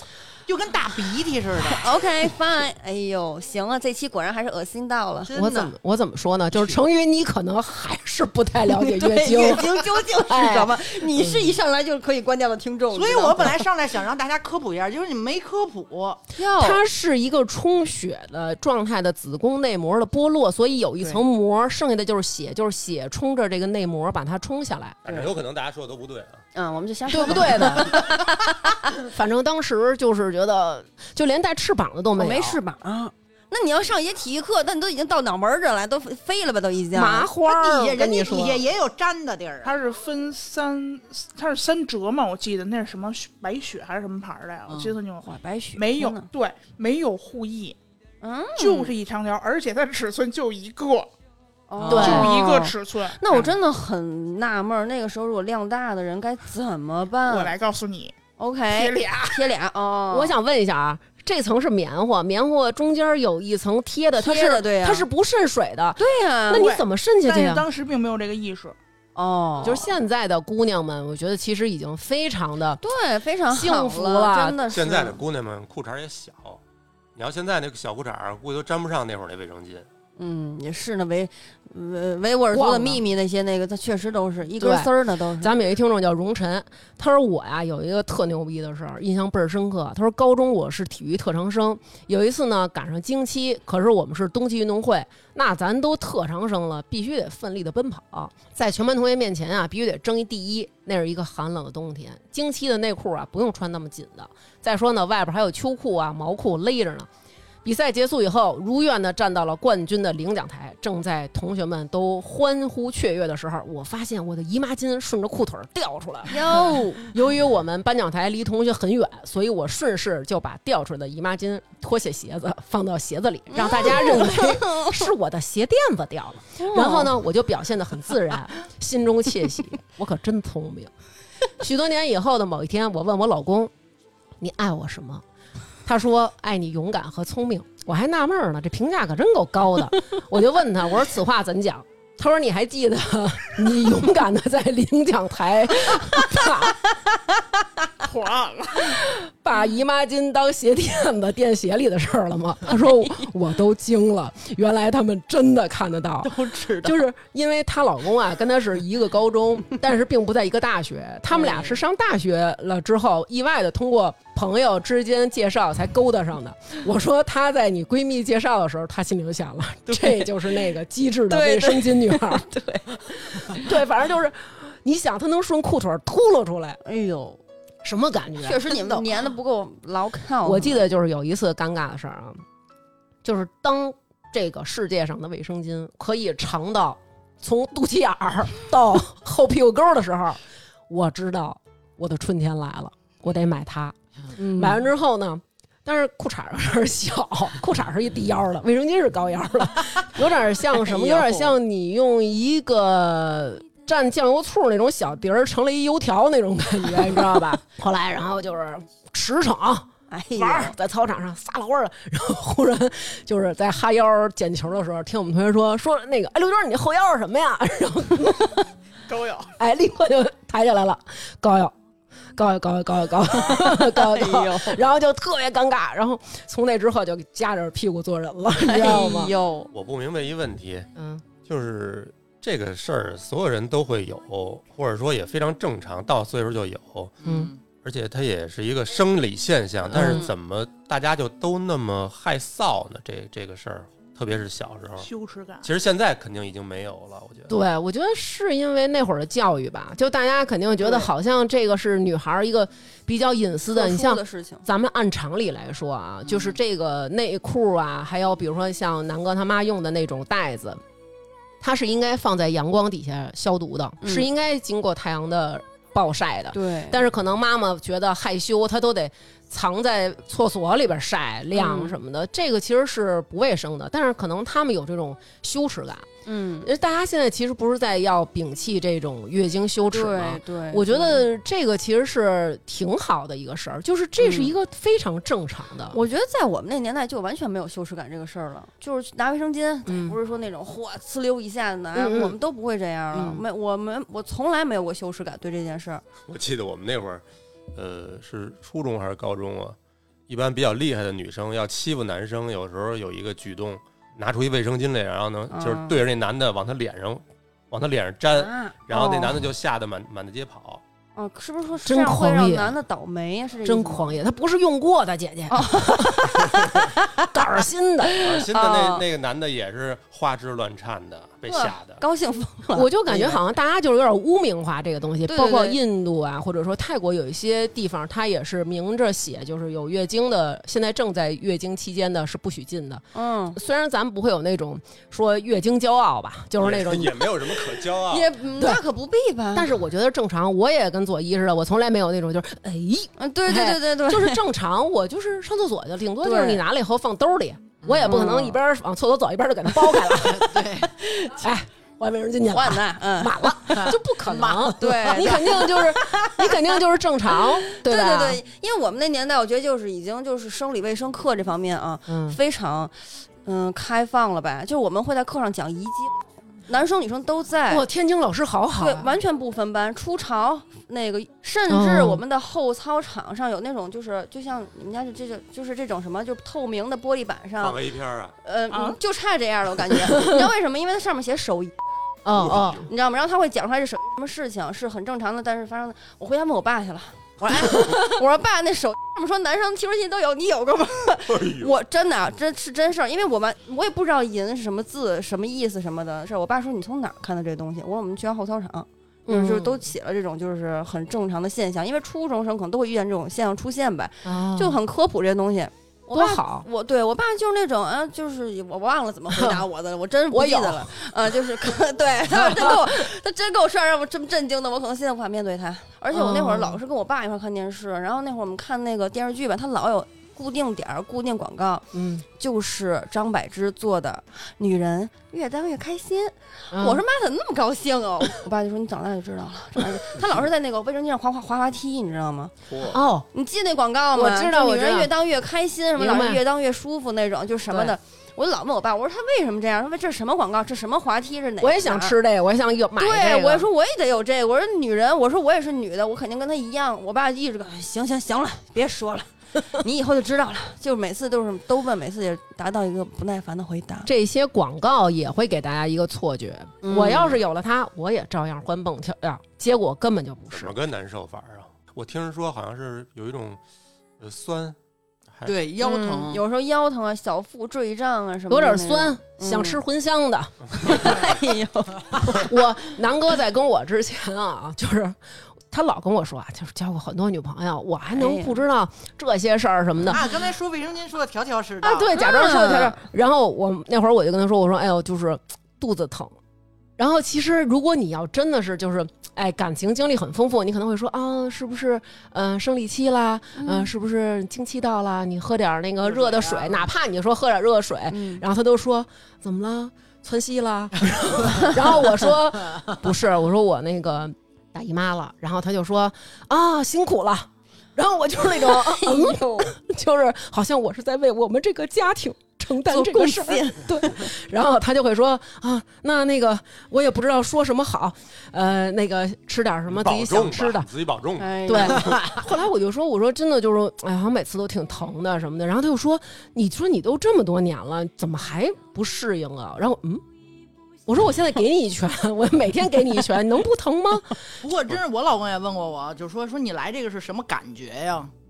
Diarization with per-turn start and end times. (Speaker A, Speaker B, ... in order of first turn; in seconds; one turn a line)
Speaker A: 0.5-1.8
Speaker B: 1.7-5.3
Speaker A: 5.3-5.7
Speaker C: 5.3-11.5
Speaker B: 8.7-13.7
Speaker A: 12.9-16.2
Speaker B: 16.4-16.8
Speaker C: 16.6-25.0
Speaker D: 25.0-26.4
Speaker B: 26.5-28.7
Speaker C: 27.1-28.1
Speaker C: 29.0-32.6
Speaker B: 32.1-37.3
Speaker C: 36.9-38.6
Speaker A: 37.4-39.7
Speaker E: 39.6-47.8
Speaker A: 44.7-45.0
Speaker B: 45.2-46.3
Speaker B: 48.2-48.9
Speaker E: 48.5-51.1
Speaker B: 51.7-57.5
Speaker A: 51.8-52.3
Speaker C: 51.9-52.3
Speaker E: 51.9-53.5
Speaker E: 57.2-58.1
Speaker B: 58.4-60.3
Speaker E: 58.7-59.5
Speaker C: 60.1-67.7
Speaker B: 64.2-65.0
Speaker B: 66.0-66.7
Speaker E: 66.5-68.8
Speaker B: 69.2-69.9
Speaker C: 69.6-72.8
Speaker B: 72.8-75.2
Speaker C: 73.5-74.6
Speaker D: 74.7-76.6
Speaker D: 77.2-79.9
Speaker B: 80.2-85.5
Speaker C: 82.5-83.0
Speaker C: 84.6-107.1
Speaker C: 107.6-130.9
Speaker B: 116.3-117.1
Speaker B: 123.5-125.0
Speaker B: 126.6-127.1
Speaker C: 131.6-133.7
Speaker C: 134.4-135.2
Speaker C: 135.8-146.8
Speaker E: 148.0-149.0
Speaker C: 148.8-172.4
Speaker A: 156.2-156.9
Speaker B: 161.3-161.8
Speaker B: 169.9-170.3
Speaker B: 171.3-173.7
Speaker C: 173.3-176.8
Speaker B: 176.8-177.4
Speaker C: 177.8-179.0
Speaker B: 178.4-180.9
Speaker C: 180.4-182.4
Speaker C: 183.2-218.7
Speaker B: 194.4-194.8
Speaker A: 200.9-201.5
Speaker B: 210.1-210.7
Speaker E: 219.1-219.4
Speaker C: 219.6-221.7
Speaker C: 222.3-229.3
Speaker B: 223.4-224.8
Speaker B: 228.6-229.7
Speaker D: 229.7-230.9
Speaker C: 230.9-231.2
Speaker D: 231.4-237.1
Speaker A: 237.2-237.6
Speaker C: 237.2-237.5
Speaker D: 237.8-245.1
Speaker C: 239.9-240.3
Speaker E: 245.0-245.7
Speaker D: 245.6-247.5
Speaker C: 247.5-260.8
Speaker B: 250.8-251.1
Speaker B: 253.7-254.6
Speaker C: 261.6-276.1
Speaker B: 264.0-264.3
Speaker B: 266.5-267.0
Speaker B: 271.5-272.0
Speaker B: 276.2-276.7
Speaker C: 276.6-286.0
Speaker B: 279.9-281.2
Speaker B: 284.2-284.5
Speaker B: 285.9-296.0
Speaker C: 289.9-290.2
Speaker C: 291.9-292.4
Speaker C: 293.1-293.4
Speaker D: 296.3-299.8
Speaker D: 300.3-310.8
Speaker B: 305.5-306.0
Speaker B: 308.3-309.4
Speaker B: 311.1-314.1
Speaker C: 311.8-312.8
Speaker C: 313.6-318.3
Speaker B: 315.5-317.0
Speaker B: 318.0-319.0
Speaker D: 318.2-322.0
Speaker B: 321.5-323.4
Speaker C: 322.7-337.6
Speaker B: 325.3-325.8
Speaker B: 333.1-333.6
Speaker D: 336.6-338.3
Speaker B: 338.1-339.7
Speaker C: 338.6-338.8
Speaker C: 339.5-350.7
Speaker B: 343.2-344.4
Speaker B: 346.2-346.6
Speaker A: 347.8-348.1
Speaker B: 348.1-348.6
Speaker A: 350.1-350.9
Speaker B: 351.0-351.4
Speaker C: 351.3-358.4
Speaker B: 352.5-353.9
Speaker A: 353.7-355.3
Speaker B: 354.8-356.5
Speaker B: 357.4-366.1
Speaker C: 362.1-362.4
Speaker B: 366.7-367.8
Speaker C: 367.7-369.1
Speaker B: 368.8-377.8
Speaker C: 371.7-372.2
Speaker D: 377.6-378.4
Speaker B: 378.4-381.7
Speaker E: 378.7-379.0
Speaker C: 380.1-380.4
Speaker C: 382.2-382.9
Speaker D: 382.4-382.8
Speaker B: 382.9-432.5
Speaker D: 391.3-391.7
Speaker C: 399.3-399.8
Speaker C: 404.2-404.8
Speaker C: 406.1-406.6
Speaker C: 409.3-409.6
Speaker C: 410.3-410.9
Speaker C: 412.3-412.9
Speaker C: 416.1-416.8
Speaker C: 421.9-422.2
Speaker C: 426.7-427.0
Speaker D: 432.7-433.0
Speaker C: 432.9-433.3
Speaker B: 433.3-442.1
Speaker C: 434.1-435.1
Speaker C: 435.9-436.4
Speaker C: 437.7-438.0
Speaker C: 441.6-443.7
Speaker B: 443.0-454.1
Speaker C: 454.1-460.7
Speaker B: 456.8-457.4
Speaker D: 460.5-463.6
Speaker D: 464.2-464.8
Speaker D: 465.3-465.6
Speaker A: 465.4-466.4
Speaker B: 465.8-469.8
Speaker C: 468.5-471.2
Speaker B: 470.8-472.5
Speaker C: 472.2-475.2
Speaker C: 475.7-480.2
Speaker B: 478.1-478.6
Speaker A: 480.1-482.1
Speaker C: 481.8-486.3
Speaker B: 482.1-483.0
Speaker C: 487.0-520.9
Speaker B: 493.6-493.9
Speaker A: 496.0-496.9
Speaker B: 498.1-498.4
Speaker B: 508.7-509.7
Speaker B: 512.9-514.3
Speaker D: 519.9-522.1
Speaker B: 521.4-522.2
Speaker C: 521.7-530.2
Speaker C: 531.0-534.5
Speaker A: 534.6-538.3